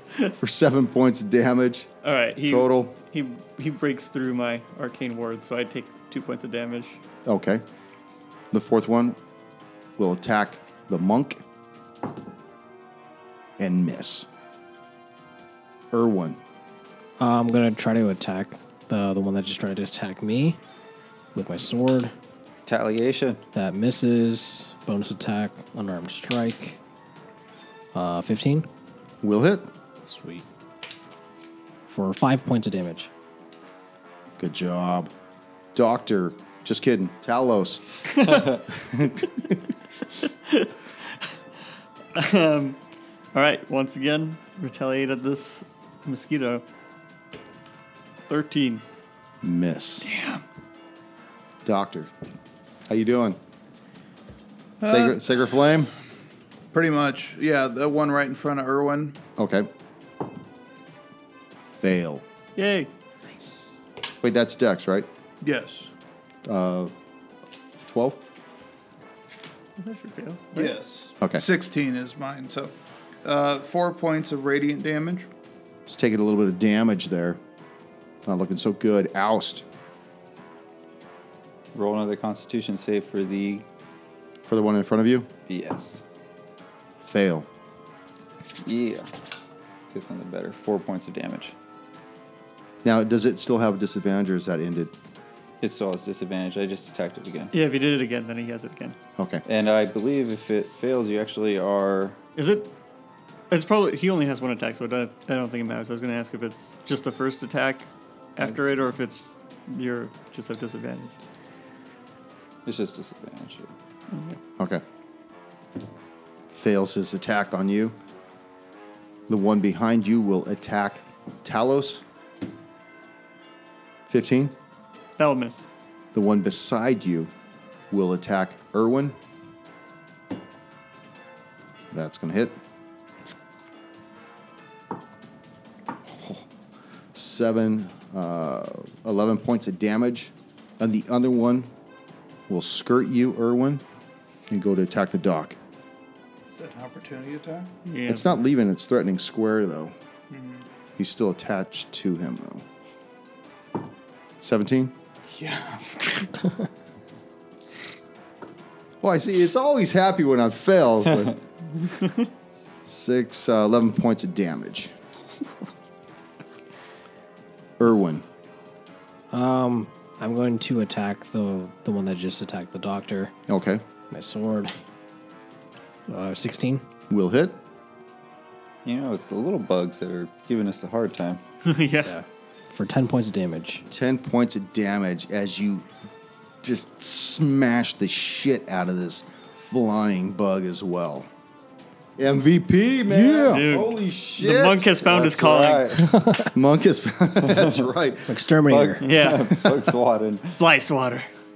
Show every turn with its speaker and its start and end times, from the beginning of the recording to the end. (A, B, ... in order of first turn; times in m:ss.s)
0:00.3-0:01.9 A
0:02.0-0:07.0 B
0:02.4-0:02.9 A
0:07.2-0:07.6 A
0:08.5-0:09.2 A
0:10.0-0:11.4 A
0:13.6-0:14.3 A
0:15.9-0:16.4 A
0:17.2-0:20.6 C
0:21.3-0:22.1 C
0:22.6-0:23.4 D
0:23.5-0:26.8 C
0:27.9-0:28.7 C
0:29.2-0:29.7 A
0:30.0-0:30.4 C
0:31.9-0:33.1 C
0:34.4-0:35.1 A
0:35.7-0:37.8 A
0:38.1-0:38.5 B
0:38.7-0:39.6 A
0:42.1-0:42.8 B
0:43.3-0:46.6 B
0:48.3-0:48.8 B
0:49.4-0:50.1 A
0:50.0-0:50.4 B
0:51.6-0:52.1 A
0:52.9-0:53.4 A
0:54.8-0:55.5 E
0:54.8-0:55.9 A
0:56.7-0:59.2 E
0:59.4-0:59.7 A
1:01.8-1:02.2 A
1:02.6-1:02.9 B
1:03.4-1:03.6 C
1:04.2-1:05.1 A
1:05.4-1:05.9 E
1:06.4-1:06.9 A
1:07.8-1:08.2 A
1:09.8-1:10.8 B
1:10.5-1:12.7 E
1:13.2-1:15.3 E
1:15.9-1:17.4 A
1:18.2-1:19.6 A
1:21.7-1:23.6 D
1:24.4-1:25.3 A
1:25.5-1:26.0 D
1:27.0-1:27.5 A
1:28.6-1:29.1 D
1:29.9-1:31.5 D
1:32.8-1:34.9 A
1:35.6-1:37.5 D
1:37.5-1:39.0 B
1:39.2-1:39.4 A
1:39.4-1:42.2 D
1:42.4-1:42.7 B
1:43.5-1:51.1 B
1:52.6-1:53.7 D
1:54.1-1:54.4 B
1:54.6-1:54.8 A
1:56.5-1:57.9 A
1:59.3-2:02.0 A
2:04.1-2:04.5 A
2:05.2-2:05.6 B
2:06.1-2:07.3 A
2:07.9-2:09.2 A
2:11.9-2:12.6 A
2:16.1-2:16.4 A
2:17.1-2:21.7 A
2:22.5-2:23.8 A
2:24.5-2:25.6 A
2:26.5-2:27.7 E
2:27.8-2:28.3 B
2:28.1-2:29.9 A
2:30.3-2:30.6 E
2:31.0-2:32.6 A
2:34.4-2:34.9 A
2:35.3-2:36.3 E
2:39.0-2:41.4 A
2:42.8-2:44.9 A
2:47.8-2:48.2 A
2:49.3-2:53.3 C
2:53.5-2:53.8 A
2:54.1-2:54.7 C
2:56.1-2:56.8 C
2:57.1-2:57.6 A
2:58.8-3:01.4 D
3:01.6-3:02.1 B
3:02.0-3:03.8 C
3:03.9-3:05.9 A
3:06.6-3:11.3 A
3:12.2-3:15.4 A
3:13.1-3:13.6 C
3:13.5-3:15.9 B
3:15.1-3:16.1 D
3:16.0-3:16.5 C
3:16.4-3:18.4 A
3:17.4-3:17.8 D
3:18.3-3:19.0 C
3:18.7-3:20.6 D
3:19.0-3:19.7 B
3:20.6-3:21.3 B